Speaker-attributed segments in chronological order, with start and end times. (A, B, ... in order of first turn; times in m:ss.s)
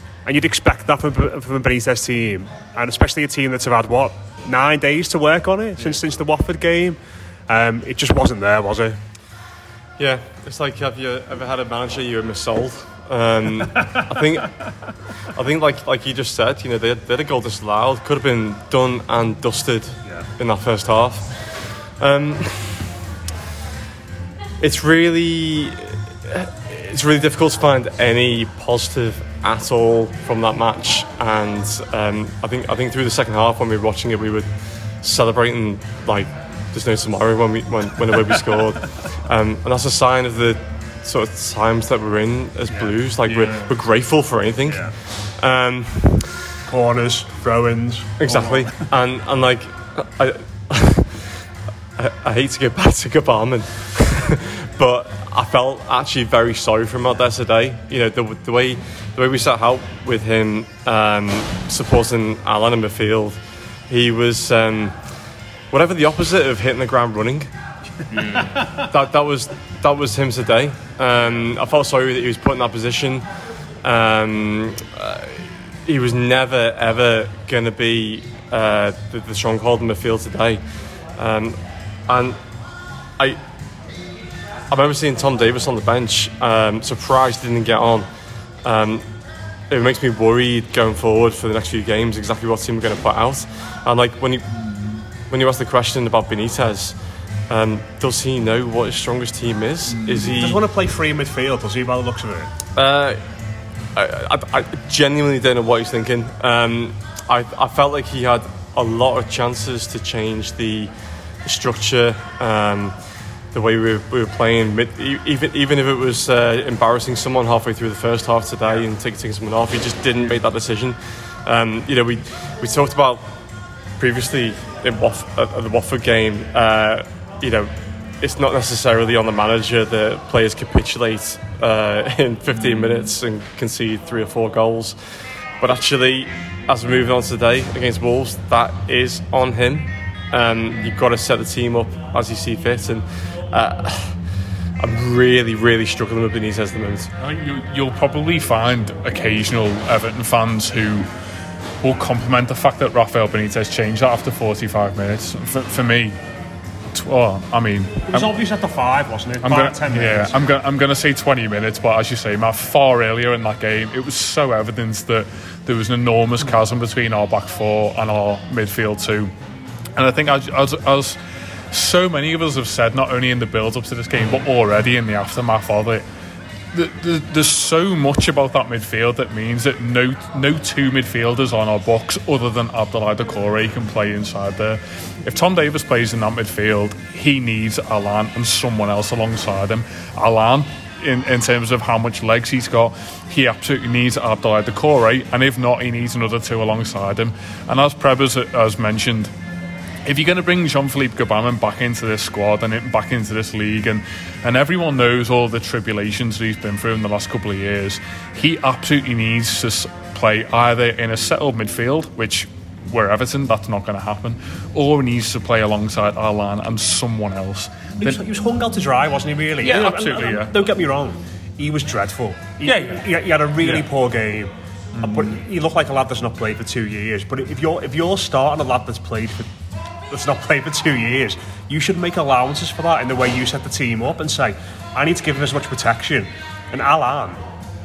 0:00.2-0:07.0 A
0:07.5-0:09.0 A
0:10.0-0:14.6 B
0:15.3-0:22.9 B
0:24.6-0:46.3 B
0:44.7-0:44.9 A
0:46.7-0:48.8 A
0:48.2-0:51.4 B
0:52.0-1:05.0 B
1:05.7-1:07.5 B
1:08.1-1:08.5 C
1:08.7-1:13.3 B
1:13.8-1:20.6 B
1:21.2-1:22.4 B
1:24.7-1:28.1 B
1:28.6-1:29.0 B
1:29.7-1:34.7 B
1:35.2-1:37.0 B
1:37.5-1:40.6 B
1:40.2-1:42.5 A
1:42.8-1:43.2 B
1:44.0-1:50.9 B
1:51.4-1:53.0 B
1:53.5-2:03.3 B
2:04.0-2:15.0 B
2:15.6-2:24.2 B
2:24.8-2:27.1 B
2:27.2-2:31.1 C
2:31.8-2:36.2 C
2:36.9-2:38.3 C
2:38.1-2:40.4 A
2:39.4-2:49.3 C
2:50.0-2:51.2 C
2:51.7-2:56.0 C
2:56.7-3:19.3 C
3:20.0-3:38.2 C
3:38.0-3:44.5 A
3:39.6-3:40.5 C
3:42.6-3:43.0 C
3:43.6-3:43.9 C
3:45.0-3:45.4 C
3:45.0-3:49.5 A
3:50.1-3:57.4 A